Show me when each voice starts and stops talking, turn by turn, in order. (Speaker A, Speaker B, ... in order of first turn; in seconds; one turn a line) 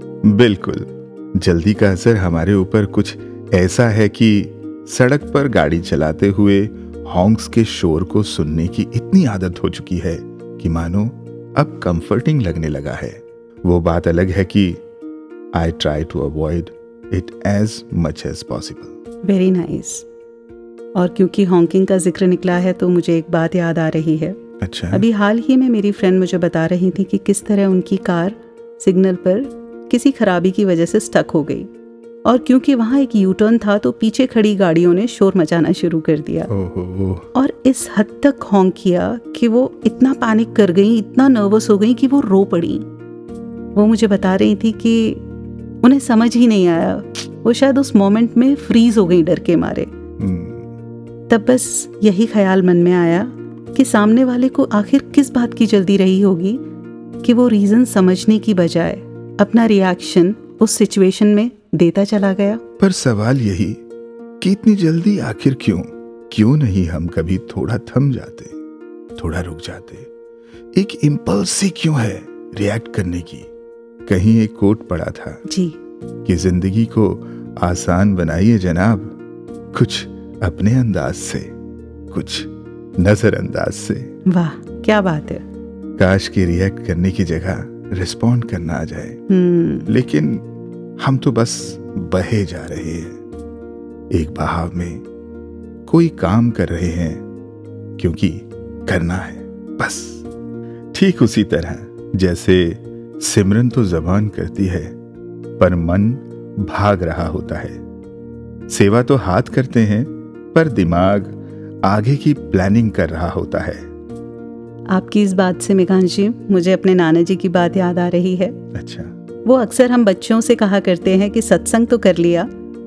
Speaker A: 0.2-14.8
Speaker A: 15.5-18.9
Speaker B: 19.2-20.1
Speaker B: 21.0-24.4
Speaker A: 24.6-25.1
Speaker B: 24.9-31.7
Speaker B: 32.2-36.5
Speaker A: 36.5-37.3
Speaker B: 37.4-42.9
Speaker B: 43.8-45.2
Speaker B: 45.8-49.9
Speaker A: 50.2-50.7
Speaker B: 51.3-56.6
Speaker B: 57.2-62.6
Speaker A: 62.8-63.8
Speaker A: 64.4-68.6
Speaker A: 69.2-70.1
Speaker A: 70.7-73.5
Speaker A: 74.1-75.4
Speaker B: 75.5-75.8
Speaker A: 76.2-79.2
Speaker A: 79.7-81.5
Speaker A: 82.1-84.1
Speaker B: 84.3-85.4
Speaker A: 86.0-89.2
Speaker B: 89.3-89.9
Speaker A: 89.9-90.5
Speaker A: 91.0-93.2
Speaker A: 94.1-95.0
Speaker A: 95.9-97.2
Speaker A: 98.0-100.2
Speaker A: 100.9-104.9
Speaker A: 105.6-107.8
Speaker A: 108.7-113.9
Speaker B: 114.9-118.6
Speaker A: 118.7-119.1
Speaker B: 119.5-122.5